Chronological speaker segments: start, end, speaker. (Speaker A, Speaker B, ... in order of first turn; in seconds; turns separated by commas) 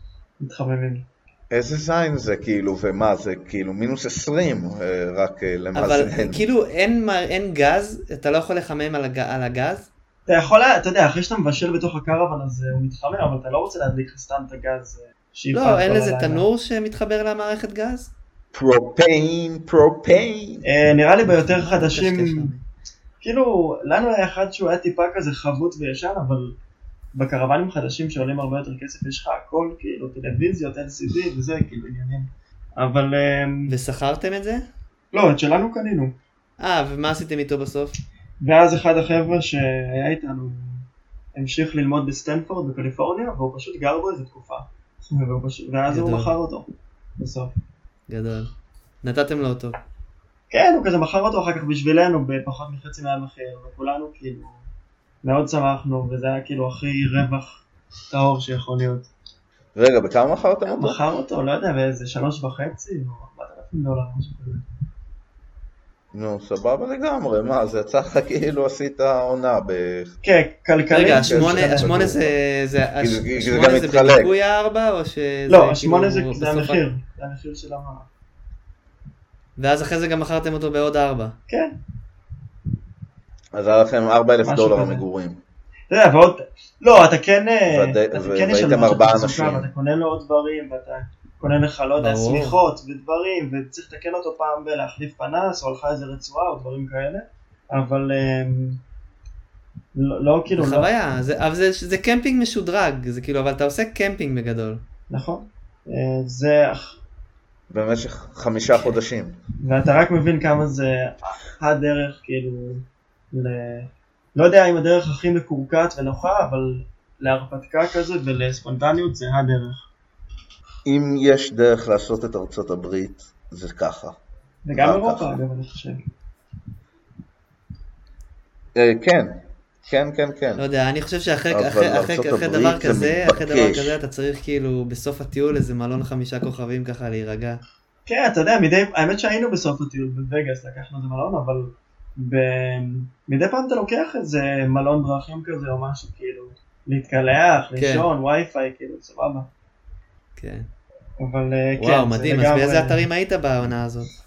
Speaker A: 0.4-1.1, Speaker B: 1.5-6.5, Speaker C: 5.8-9.9, Speaker A: 10.3-16.5, Speaker C: 15.5-18.1, Speaker B: 18.5-20.6, Speaker A: 20.6-22.5, Speaker C: 21.3-22.6, Speaker A: 23.2-26.6, Speaker A: 27.1-33.7, Speaker C: 33.7-34.6, Speaker A: 35.1-36.2, Speaker C: 36.6-38.0, Speaker A: 38.4-47.6, Speaker C: 45.9-46.3, Speaker C: 48.1-48.5, Speaker C: 49.0-49.8, Speaker A: 50.5-54.6, Speaker A: 55.2-59.1, Speaker B: 59.8-61.0, Speaker A: 60.7-64.7, Speaker B: 66.1-70.2, Speaker A: 70.2-71.9, Speaker C: 70.9-76.8, Speaker B: 71.0-72.4, Speaker B: 73.0-74.3, Speaker A: 75.5-78.1, Speaker C: 79.6-81.3, Speaker A: 81.5-81.7, Speaker B: 83.5-85.4, Speaker A: 84.4-85.0, Speaker A: 85.9-98.8, Speaker B: 87.7-89.7, Speaker C: 92.0-92.6, Speaker A: 100.0-100.9, Speaker C: 100.6-104.8, Speaker A: 105.1-107.0, Speaker B: 107.7-109.4, Speaker A: 109.6-119.9, Speaker B: 120.9-124.2, Speaker A: 124.6-126.0, Speaker B: 124.8-125.4, Speaker B: 128.8-130.7, Speaker C: 130.6-137.6, Speaker B: 131.5-134.0, Speaker A: 138.1-149.5, Speaker C: 147.8-148.1, Speaker C: 150.4-150.7, Speaker A: 151.2-153.1, Speaker C: 151.8-154.1